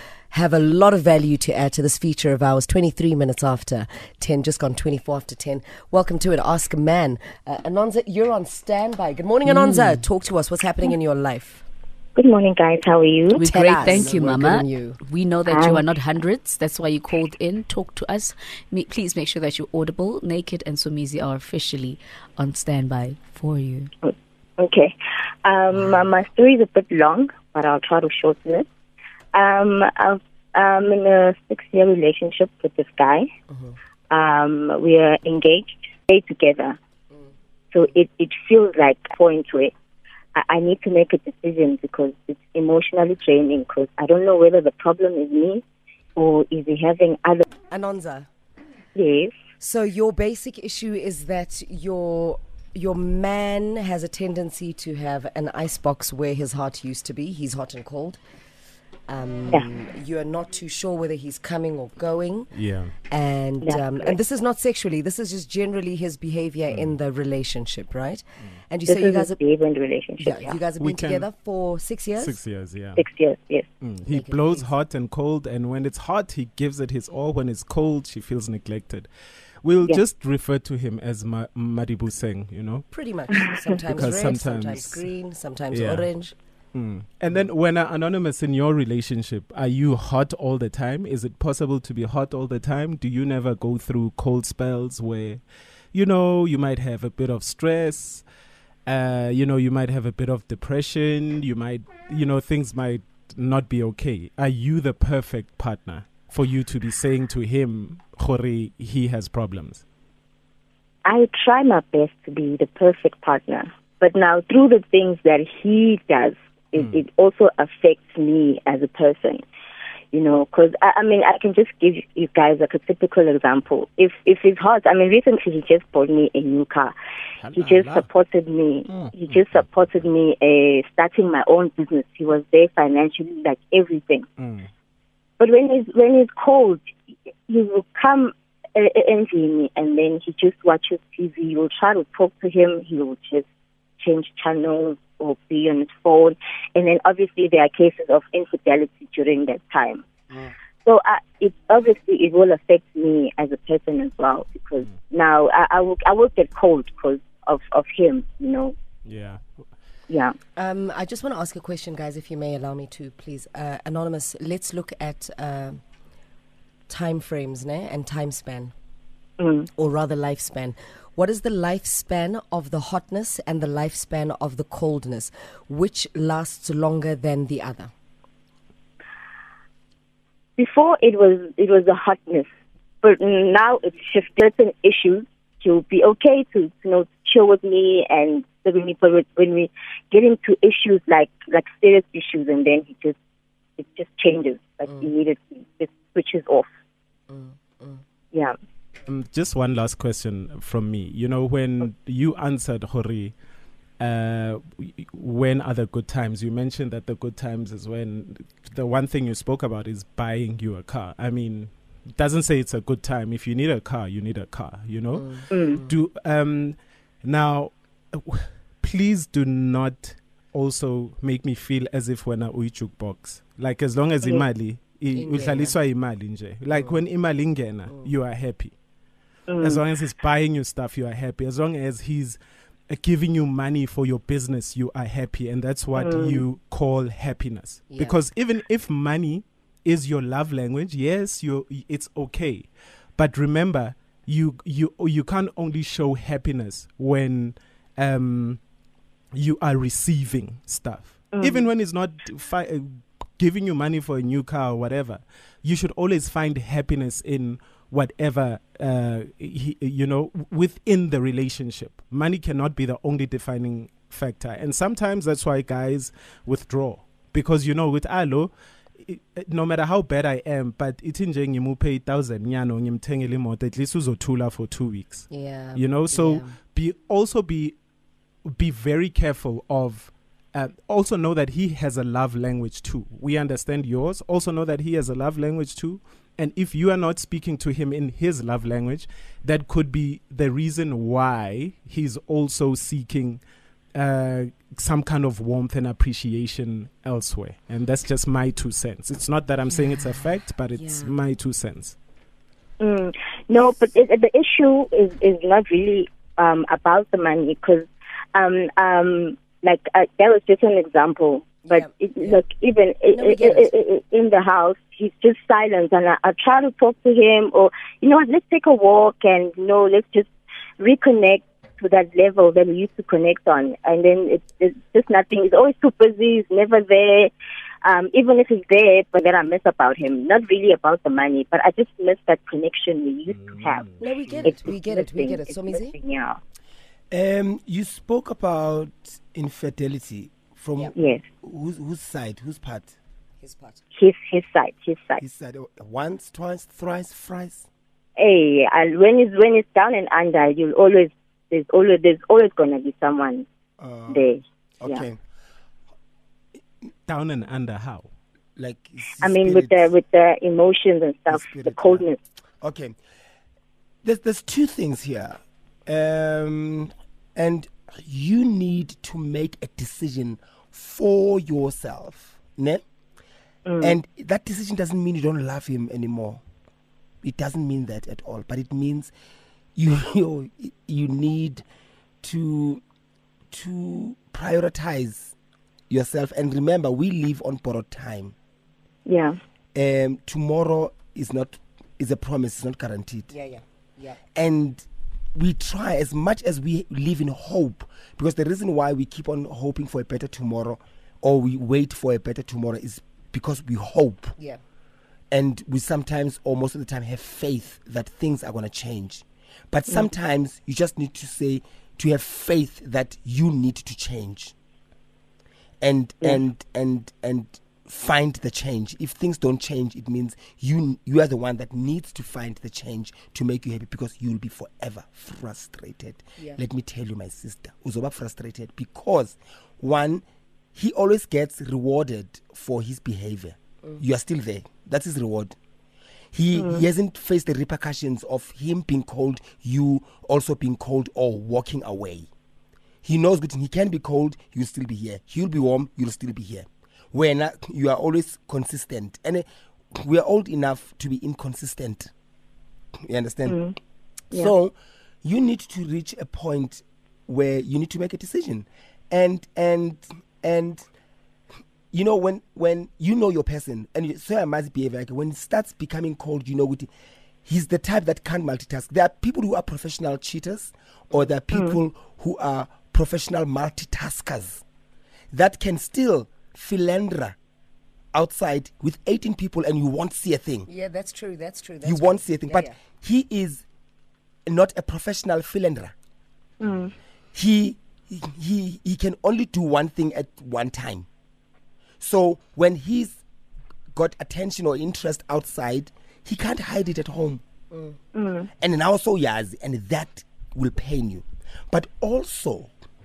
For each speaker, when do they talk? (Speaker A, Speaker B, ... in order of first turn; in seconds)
Speaker A: 0.3-11.6, 13.5-15.0, 33.5-33.8, 47.7-48.3, 49.6-58.2, 59.1-62.5, 63.1-69.4, 70.2-72.4, 74.1-74.7, 82.9-86.3, 160.6-165.8, 166.9-168.7, 169.8-177.9, 197.3-198.0, 215.1-215.9, 225.1-225.8, 226.7-227.0, 237.9-238.2, 275.3-276.6, 300.7-301.1, 311.6-312.4, 313.1-313.7, 334.0-335.9, 343.4-343.8, 393.3-394.2, 480.7-482.8, 497.7-498.0
Speaker B: 9.5-10.0, 13.3-23.9
Speaker C: 12.2-14.1, 15.4-15.8, 24.0-28.7, 29.3-33.3, 34.1-36.8, 37.7-39.7, 40.3-45.6, 46.1-47.5, 48.9-49.3, 63.6-64.1, 68.9-70.6, 73.0-73.7, 111.0-119.4, 120.1-126.9, 127.5-134.3, 135.4-136.8, 137.5-143.4, 144.0-150.0, 150.8-158.7, 160.1-160.4, 169.4-169.7, 180.6-182.5, 183.0-193.1, 193.8-196.7, 215.5-215.8, 229.5-229.8, 235.9-236.4, 251.3-251.7, 302.8-320.3, 320.8-327.3, 327.8-336.4, 340.9-341.2, 343.9-345.2, 348.2-353.4, 354.1-355.0, 359.2-362.2, 373.6-374.0, 389.1-389.4, 436.6-436.8, 453.5-453.8, 471.5-471.8, 486.6-486.9, 498.1-498.5
Speaker D: 62.5-62.9, 70.8-71.3, 72.2-73.0, 73.8-79.1, 79.6-82.9, 83.9-85.1, 85.7-86.1, 86.7-95.4, 95.9-98.2, 98.8-109.8, 116.8-117.0, 127.4-128.1, 128.9-129.7, 134.4-134.7, 159.1-159.7, 199.1-203.3, 204.0-228.7, 229.6-232.4, 232.9-248.6, 249.3-277.8, 278.4-293.4, 293.9-302.0, 333.3-334.0, 357.1-358.1
Speaker E: 337.1-342.9, 345.2-347.7, 353.8-354.3, 354.8-355.2, 358.6-359.8, 361.3-362.1, 362.6-362.9, 364.0-372.8, 373.8-376.4, 377.2-379.1, 379.8-381.6, 382.2-382.8, 383.5-385.3, 385.9-388.3, 389.7-393.3, 394.3-404.3, 405.3-414.5, 415.8-435.6, 436.3-442.3, 443.0-452.1, 453.0-453.6, 454.3-460.9, 461.9-466.9, 467.4-474.6, 475.3-477.4, 478.1-480.7, 481.8-483.6, 484.5-485.9, 487.3-491.1, 492.0-493.2, 493.9-497.4, 498.6-502.7